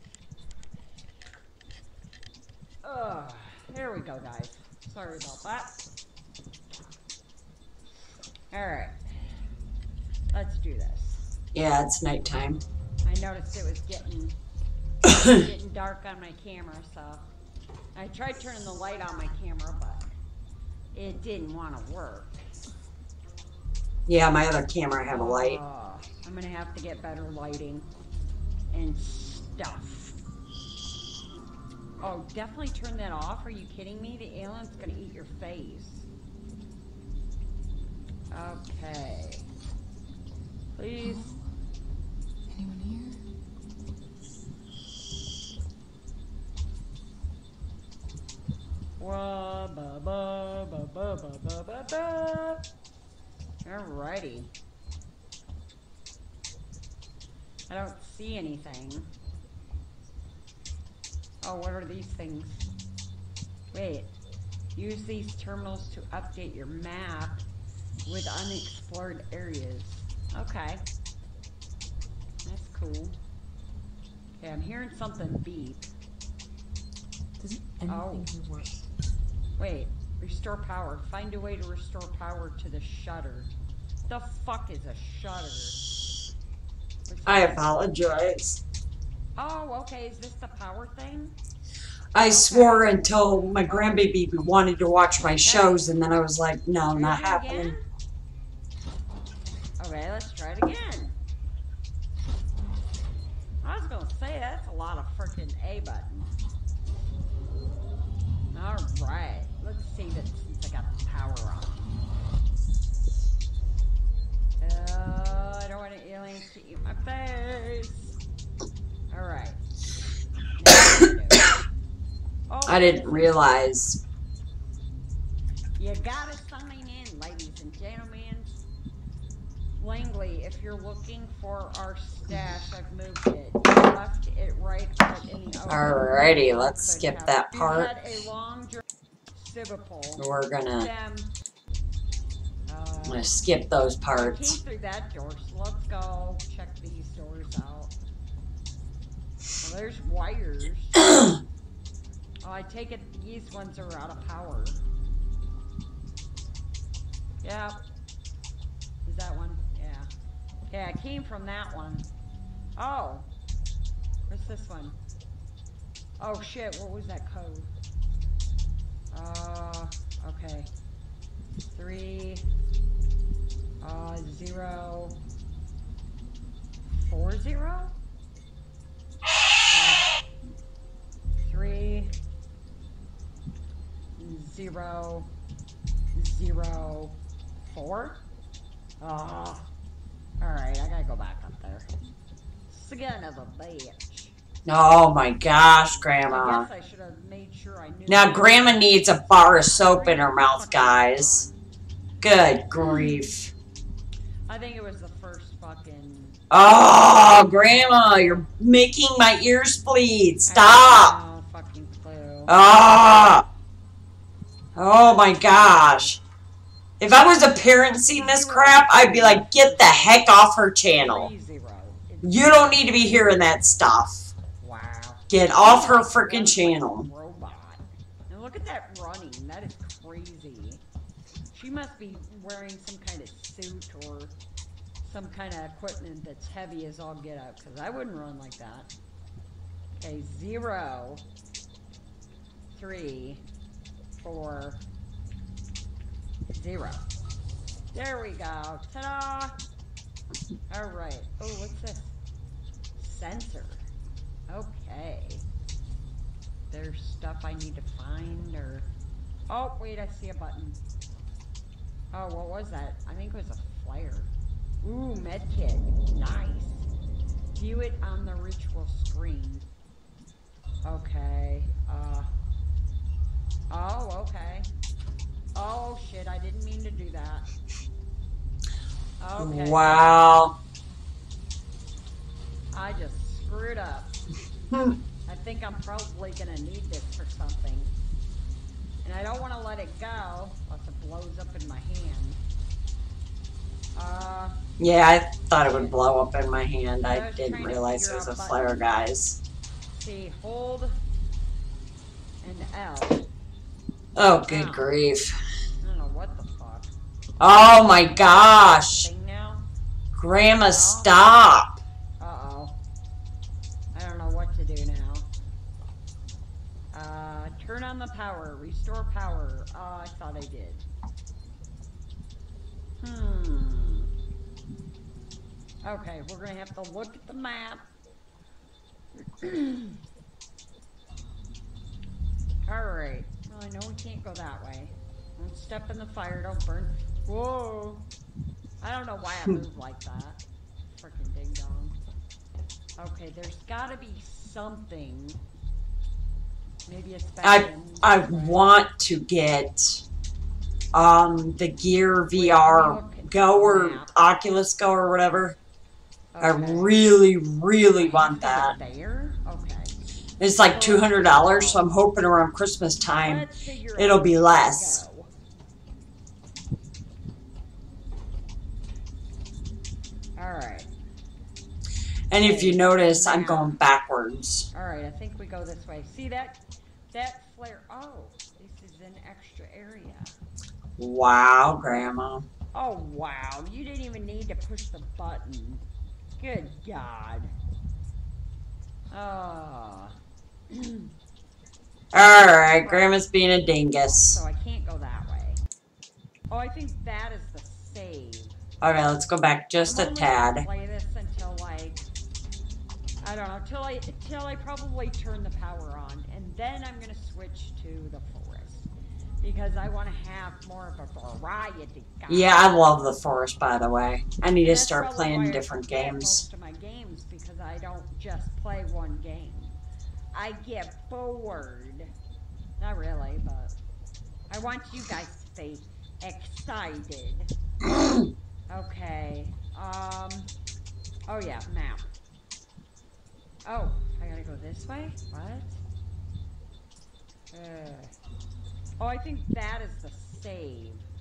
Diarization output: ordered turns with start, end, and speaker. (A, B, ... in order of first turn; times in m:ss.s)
0:02.8-0:05.7 A
0:08.5-0:09.1 A
0:10.3-0:11.2 A
0:11.5-0:12.6 B
0:13.0-0:14.4 A
0:15.0-0:15.4 B
0:15.1-0:17.2 A
0:17.9-0:20.0 A
0:20.9-0:22.4 A
0:24.1-0:25.6 B
0:25.1-0:27.9 A
0:28.7-0:30.2 A
0:32.0-0:36.0 A
0:38.3-0:39.4 A
0:40.8-0:41.3 A
0:41.0-0:41.4 C
0:42.5-0:43.2 C
0:49.0-0:52.6 A
0:53.6-0:54.5 A
0:57.7-0:59.1 A
1:01.4-1:02.7 A
1:03.7-1:04.1 A
1:04.7-1:07.4 A
1:08.0-1:10.8 A
1:12.4-1:13.2 A
1:14.4-1:15.9 A
1:17.4-1:18.8 C
1:17.8-1:18.3 A
1:19.6-1:23.5 A
1:24.1-1:25.8 A
1:27.0-1:27.7 A
1:27.2-1:28.6 B
1:29.4-1:31.4 A
1:32.1-1:37.7 B
1:32.2-1:33.0 A
1:33.7-1:34.0 A
1:35.4-1:35.9 A
1:36.9-1:37.8 A
1:39.8-1:41.2 A
1:43.6-1:46.3 A
1:48.5-1:51.9 A
1:54.6-1:58.2 A
1:59.1-1:59.6 A
2:00.6-2:01.5 A
2:02.5-2:03.4 A
2:02.6-2:04.0 B
2:05.8-2:08.5 A
2:09.8-2:21.3 A
2:15.7-2:17.9 B
2:20.2-2:20.9 B
2:22.7-2:23.3 A
2:23.0-2:24.6 B
2:24.1-2:27.9 A
2:29.6-2:31.1 A
2:32.4-2:34.8 A
2:37.4-2:37.8 A
2:39.0-2:40.1 A
2:40.7-2:42.1 A
2:42.8-2:43.3 A
2:44.3-2:45.0 A
2:46.2-2:47.7 A
2:49.1-2:50.7 A
2:51.6-2:52.5 A
2:53.8-2:55.2 A
2:56.9-2:57.9 A
2:59.7-3:00.1 A
3:01.4-3:02.1 A
3:04.2-3:05.3 A
3:06.1-3:08.2 A
3:09.0-3:09.7 A
3:10.4-3:11.9 A
3:12.7-3:14.3 A
3:14.6-3:16.7 B
3:16.2-3:21.6 A
3:18.1-3:21.4 B
3:22.2-3:23.5 B
3:24.5-3:26.4 A
3:26.5-3:31.1 B
3:27.1-3:28.5 A
3:30.4-3:32.6 A
3:32.5-3:33.4 B
3:34.8-3:36.2 B
3:35.0-3:36.2 A
3:37.0-3:41.3 B
3:38.1-3:43.3 A
3:42.2-3:44.3 B
3:44.6-3:50.8 A
3:45.3-3:47.1 B
3:51.5-3:54.3 A
3:55.0-3:58.9 A
4:00.0-4:01.2 A
4:02.7-4:03.4 A
4:04.1-4:04.8 A
4:06.5-4:07.0 A
4:07.9-4:09.5 A
4:10.7-4:12.1 A
4:13.0-4:13.8 A
4:14.5-4:15.4 A
4:16.7-4:18.9 A
4:19.5-4:20.8 A
4:22.1-4:24.3 A
4:24.8-4:26.9 A
4:27.6-4:29.7 A
4:30.8-4:32.3 A
4:33.7-4:34.7 A
4:35.5-4:37.5 A
4:39.2-4:40.3 A
4:39.4-4:40.5 B
4:42.7-4:44.2 A
4:44.7-4:45.0 B
4:45.2-4:47.9 A
4:49.0-4:52.4 A
4:54.0-4:54.6 A
4:54.8-4:59.4 B
4:55.6-4:56.0 A
4:57.0-4:59.0 A
4:59.9-5:01.0 A
5:02.4-5:03.3 A
5:04.2-5:05.3 B
5:04.4-5:04.9 A
5:05.8-5:06.9 A
5:07.4-5:09.1 B
5:08.4-5:09.7 A
5:10.1-5:11.8 B
5:10.7-5:11.3 A
5:12.2-5:12.8 A
5:13.9-5:15.3 A
5:16.9-5:20.9 A
5:23.0-5:24.1 A
5:25.8-5:27.8 A
5:29.4-5:30.0 A
5:32.7-5:38.0 A
5:38.8-5:40.4 A
5:40.9-5:42.0 A
5:43.0-5:45.4 A
5:46.8-5:48.7 A
5:47.4-5:50.0 B
5:50.9-5:55.6 B
5:52.3-5:54.1 A
5:56.3-5:57.1 A
5:56.4-5:58.7 B
5:57.9-5:59.9 A
6:00.4-6:05.0 B
6:00.6-6:01.8 A
6:03.2-6:05.3 A
6:10.4-6:10.9 A
6:12.3-6:14.7 B
6:12.4-6:13.8 A
6:14.7-6:16.6 A
6:17.1-6:20.3 A
6:21.0-6:22.5 B
6:22.7-6:25.8 A
6:26.4-6:27.5 A
6:29.1-6:30.1 A
6:30.7-6:31.1 A
6:32.1-6:34.4 B
6:32.6-6:33.2 A
6:34.1-6:35.6 A
6:36.5-6:38.5 A
6:38.8-6:40.6 B
6:39.8-6:42.1 A
6:43.2-6:48.9 A
6:49.4-6:52.7 A
6:52.3-6:56.4 B
6:54.6-6:59.8 A
7:00.3-7:02.1 A
7:02.8-7:03.7 A
7:04.5-7:07.5 A
7:08.7-7:10.5 A
7:11.3-7:12.1 A
7:13.6-7:15.8 A
7:17.5-7:18.1 A
7:19.0-7:21.0 A